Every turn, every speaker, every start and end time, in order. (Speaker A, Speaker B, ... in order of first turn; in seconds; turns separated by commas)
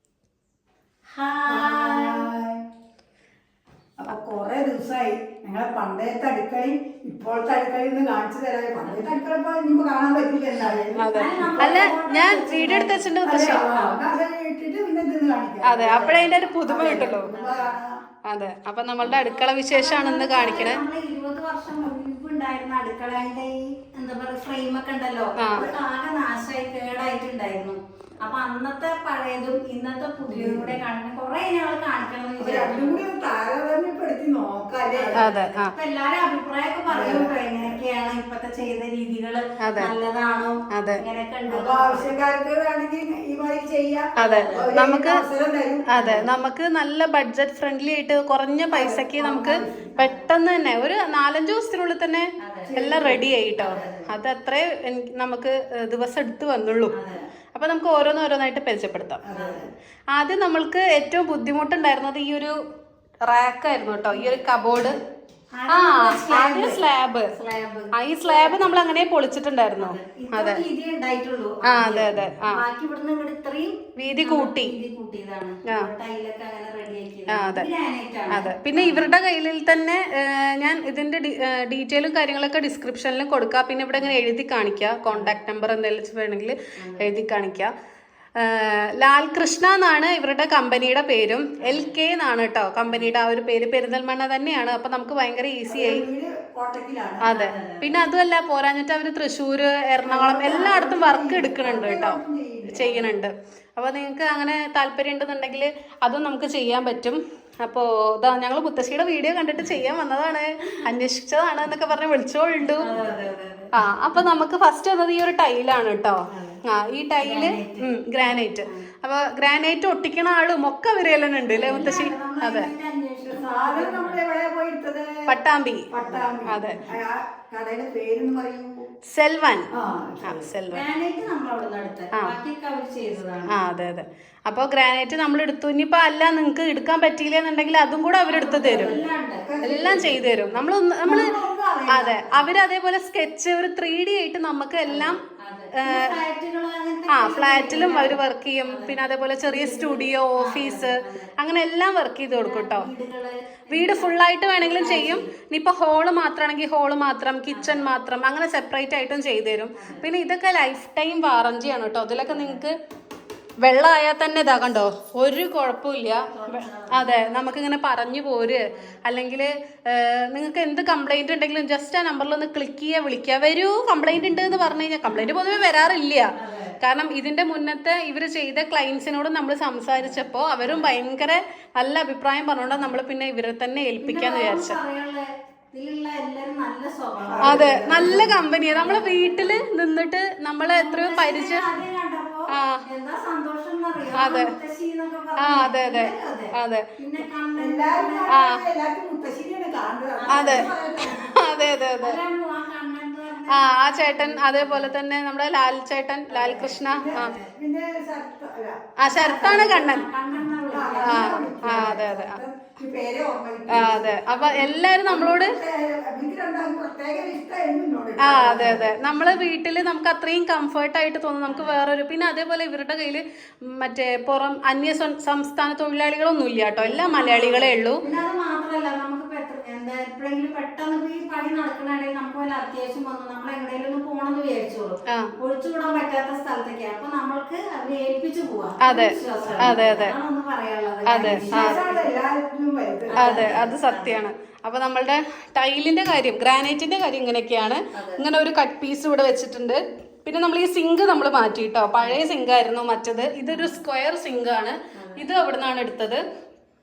Speaker A: 1.1-2.3, Speaker B: 1.5-2.6, Speaker B: 4.0-11.8, Speaker C: 10.9-13.8, Speaker A: 11.1-14.0, Speaker B: 13.2-18.0, Speaker C: 15.6-17.3, Speaker A: 17.3-17.8, Speaker C: 18.3-20.8, Speaker A: 19.0-33.0, Speaker C: 25.4-25.7, Speaker B: 30.3-30.8, Speaker B: 32.4-35.2, Speaker A: 34.9-42.1, Speaker C: 35.1-35.7, Speaker B: 36.9-37.4, Speaker C: 39.6-39.9, Speaker C: 40.7-41.0, Speaker B: 41.5-46.1, Speaker C: 44.2-45.2, Speaker A: 44.2-44.7, Speaker C: 45.9-57.0, Speaker B: 48.7-50.0, Speaker A: 52.4-52.7, Speaker B: 52.7-53.2, Speaker A: 53.6-54.1, Speaker A: 56.9-57.2, Speaker C: 57.5-59.2, Speaker B: 59.2-59.7, Speaker A: 59.3-59.7, Speaker C: 60.1-62.6, Speaker C: 63.3-65.0, Speaker A: 65.5-66.8, Speaker C: 65.7-67.3, Speaker A: 67.3-68.7, Speaker C: 67.9-70.6, Speaker A: 69.8-79.1, Speaker C: 71.7-72.6, Speaker C: 74.0-74.7, Speaker C: 77.3-77.7, Speaker C: 78.3-87.7, Speaker A: 86.8-87.1, Speaker C: 88.4-96.0, Speaker A: 91.6-91.9, Speaker B: 95.7-97.4, Speaker C: 97.2-102.2, Speaker A: 97.3-97.8, Speaker B: 100.1-102.9, Speaker C: 102.7-112.9, Speaker A: 112.8-114.2, Speaker C: 113.7-122.7, Speaker A: 116.3-116.6, Speaker A: 117.2-117.9, Speaker A: 121.5-124.2, Speaker B: 123.3-125.4, Speaker C: 125.3-125.9, Speaker B: 125.9-128.9, Speaker A: 126.0-126.4, Speaker C: 126.5-126.8, Speaker C: 129.1-129.7, Speaker B: 129.7-130.5, Speaker C: 130.2-130.8, Speaker A: 130.7-133.7, Speaker C: 133.5-139.0, Speaker A: 138.3-140.6, Speaker B: 139.4-140.2, Speaker C: 139.6-141.3, Speaker B: 141.0-142.4, Speaker C: 141.9-145.2, Speaker A: 144.9-151.3, Speaker C: 145.7-146.2, Speaker C: 147.1-152.9, Speaker A: 152.3-155.3, Speaker C: 153.7-162.8, Speaker A: 157.5-157.9, Speaker A: 159.8-160.1, Speaker A: 162.3-162.6, Speaker C: 163.6-184.8, Speaker A: 166.3-167.2, Speaker A: 168.7-169.0, Speaker A: 175.1-176.8, Speaker A: 180.6-180.9, Speaker A: 182.7-182.9, Speaker A: 184.0-189.7, Speaker B: 187.3-188.3, Speaker C: 187.4-191.7, Speaker A: 190.6-198.3, Speaker C: 192.5-192.8, Speaker C: 194.2-194.6, Speaker C: 195.4-196.9, Speaker B: 197.6-201.2, Speaker C: 198.3-198.6, Speaker A: 200.2-201.4, Speaker C: 200.3-202.2, Speaker A: 201.9-204.9, Speaker C: 203.5-207.3, Speaker A: 206.3-207.4, Speaker B: 206.8-208.8, Speaker C: 209.0-210.1, Speaker A: 209.1-211.9, Speaker B: 210.7-218.9, Speaker C: 211.1-212.4, Speaker C: 213.7-215.6, Speaker C: 218.2-228.0, Speaker A: 218.4-219.5, Speaker A: 221.5-221.8, Speaker A: 226.8-242.1, Speaker C: 235.1-235.4, Speaker C: 238.8-240.2, Speaker C: 241.1-241.8, Speaker B: 241.3-243.6, Speaker A: 243.1-244.3, Speaker C: 243.2-256.2, Speaker A: 247.9-248.2, Speaker A: 253.5-253.8, Speaker A: 254.9-255.2